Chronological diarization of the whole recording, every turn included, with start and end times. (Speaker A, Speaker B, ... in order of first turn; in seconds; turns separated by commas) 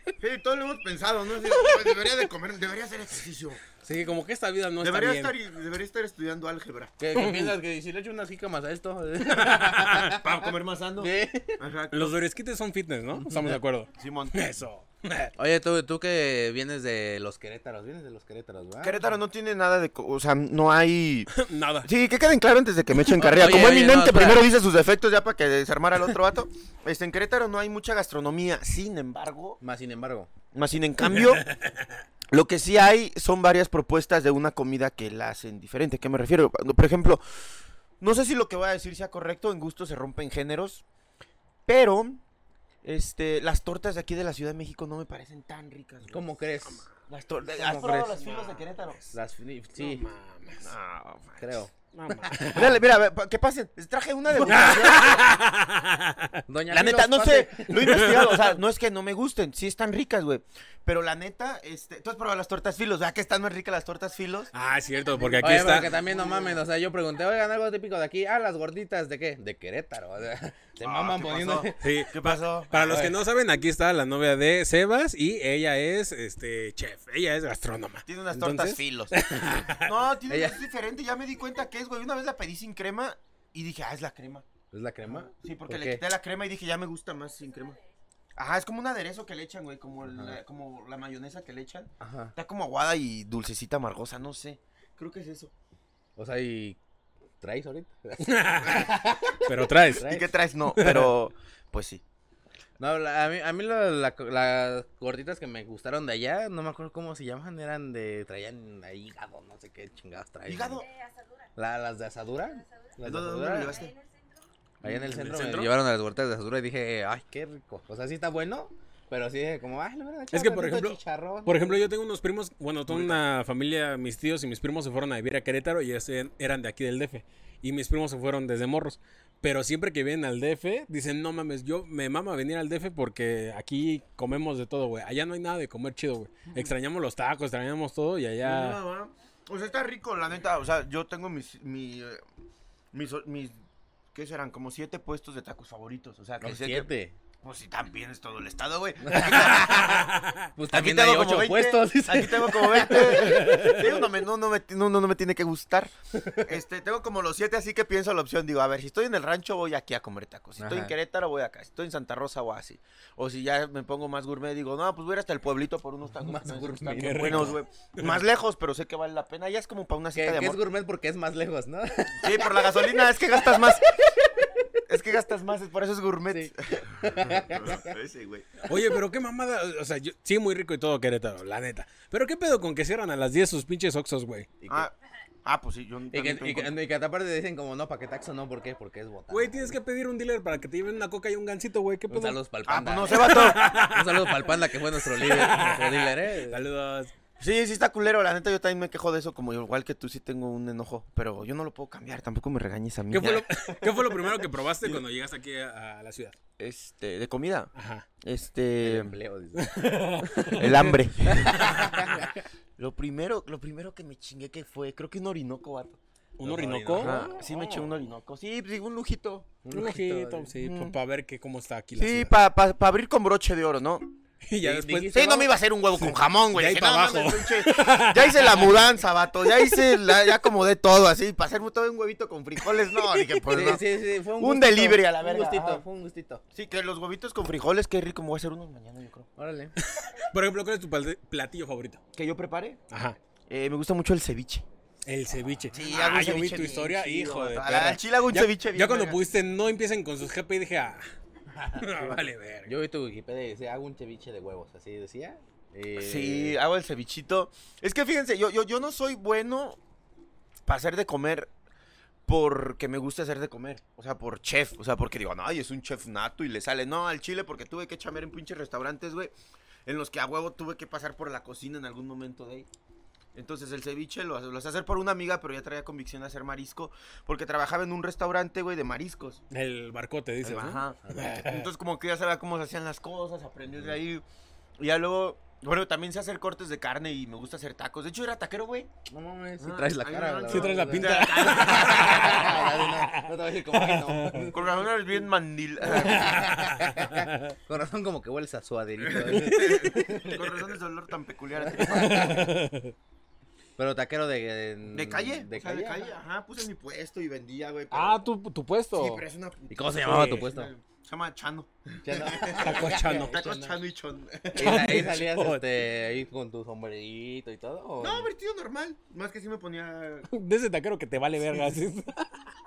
Speaker A: 0.2-3.6, Speaker B: 1.4-2.1, Speaker B: 3.8-5.3, Speaker A: 4.8-6.9, Speaker C: 7.0-10.2, Speaker B: 7.1-7.6, Speaker B: 9.3-10.2, Speaker A: 10.2-12.2, Speaker C: 11.0-11.6, Speaker B: 11.9-15.3, Speaker C: 13.1-13.6, Speaker A: 14.0-14.4, Speaker C: 15.4-19.0, Speaker A: 18.8-29.6, Speaker B: 21.3-21.9, Speaker C: 23.2-24.4, Speaker C: 29.6-30.3, Speaker A: 30.5-31.4, Speaker B: 31.1-31.5, Speaker A: 32.3-40.8, Speaker A: 41.7-42.2, Speaker A: 42.8-46.2, Speaker C: 46.1-46.9, Speaker A: 46.9-49.1, Speaker C: 47.5-48.3, Speaker C: 49.1-50.1, Speaker B: 49.8-50.7, Speaker A: 50.6-51.6, Speaker C: 51.4-51.7, Speaker B: 51.9-52.7, Speaker A: 52.5-55.3, Speaker B: 54.4-56.4, Speaker C: 56.5-57.7, Speaker A: 56.7-64.5, Speaker B: 57.8-58.5, Speaker B: 64.5-65.9, Speaker A: 65.1-66.6, Speaker C: 65.4-71.9, Speaker A: 70.8-73.0, Speaker B: 71.8-79.9, Speaker C: 72.8-73.2, Speaker A: 78.1-79.2, Speaker A: 79.7-84.5, Speaker C: 80.3-80.6, Speaker C: 84.7-86.0, Speaker A: 85.1-87.8, Speaker D: 87.2-87.9, Speaker A: 88.4-95.5, Speaker C: 90.0-90.4, Speaker C: 92.0-92.3, Speaker C: 96.2-96.8, Speaker C: 97.4-100.3, Speaker B: 98.2-100.1, Speaker A: 100.0-102.0, Speaker B: 100.7-101.1, Speaker C: 102.8-110.8, Speaker A: 110.5-110.9, Speaker D: 110.7-111.6, Speaker C: 111.6-113.8, Speaker D: 112.4-114.5, Speaker A: 113.0-113.9, Speaker C: 114.8-121.8, Speaker B: 114.8-115.7, Speaker B: 120.3-138.8, Speaker C: 122.9-123.2, Speaker A: 138.4-142.2, Speaker A: 142.9-143.6, Speaker A: 144.1-146.9, Speaker C: 146.4-147.2, Speaker A: 147.4-150.2, Speaker C: 149.0-149.7, Speaker B: 149.5-150.5, Speaker C: 150.6-153.9, Speaker A: 150.7-170.6, Speaker B: 153.4-153.8, Speaker C: 156.1-156.5, Speaker C: 160.6-160.9, Speaker C: 166.2-167.6, Speaker B: 166.9-168.2, Speaker C: 170.1-173.8, Speaker A: 172.2-173.8, Speaker C: 174.4-174.8, Speaker A: 174.9-178.6, Speaker C: 176.3-177.9, Speaker B: 178.7-184.5, Speaker C: 184.6-184.9, Speaker A: 185.4-186.8, Speaker C: 186.1-189.8, Speaker B: 189.3-192.4, Speaker C: 192.1-196.6, Speaker A: 192.7-193.7, Speaker B: 193.1-197.1, Speaker A: 197.4-205.0, Speaker B: 203.1-206.4, Speaker A: 206.6-209.2, Speaker B: 207.8-208.1, Speaker C: 208.8-209.7, Speaker B: 209.6-212.2, Speaker A: 210.5-212.2, Speaker C: 211.3-212.4, Speaker A: 212.8-216.0, Speaker B: 216.4-217.9, Speaker C: 216.4-217.4, Speaker A: 217.0-219.5, Speaker C: 219.6-220.5, Speaker B: 219.7-222.3, Speaker A: 220.6-220.9, Speaker A: 221.9-224.1, Speaker B: 224.5-225.2, Speaker C: 224.6-225.5, Speaker A: 225.1-235.9, Speaker B: 226.0-228.9, Speaker B: 232.8-233.4, Speaker C: 233.5-236.4, Speaker A: 236.5-239.3, Speaker C: 239.4-239.8, Speaker B: 239.8-242.0, Speaker A: 242.1-242.8, Speaker B: 242.9-243.2, Speaker A: 243.5-244.7, Speaker B: 245.1-251.1, Speaker A: 245.7-249.2, Speaker C: 245.8-246.5, Speaker C: 251.5-256.6, Speaker B: 251.8-252.7, Speaker A: 256.0-259.8, Speaker A: 260.7-261.5, Speaker A: 262.3-269.3, Speaker A: 269.9-272.7, Speaker A: 273.4-279.4, Speaker B: 279.5-281.7, Speaker A: 280.4-284.2, Speaker C: 281.0-281.4, Speaker A: 284.8-288.9, Speaker C: 289.1-294.7, Speaker A: 289.6-292.6, Speaker B: 290.5-294.5, Speaker A: 294.5-296.4, Speaker C: 295.9-300.4, Speaker B: 295.9-297.6, Speaker A: 299.0-302.5, Speaker B: 299.3-300.2, Speaker C: 301.6-302.2, Speaker B: 301.9-302.9, Speaker C: 303.8-306.1, Speaker A: 304.9-308.2, Speaker B: 307.9-309.2, Speaker A: 308.9-315.2, Speaker C: 309.7-310.7, Speaker B: 310.0-310.5, Speaker C: 312.0-313.8, Speaker B: 312.4-313.4, Speaker B: 314.6-315.7, Speaker C: 314.6-318.3, Speaker A: 318.0-320.3, Speaker B: 320.3-322.4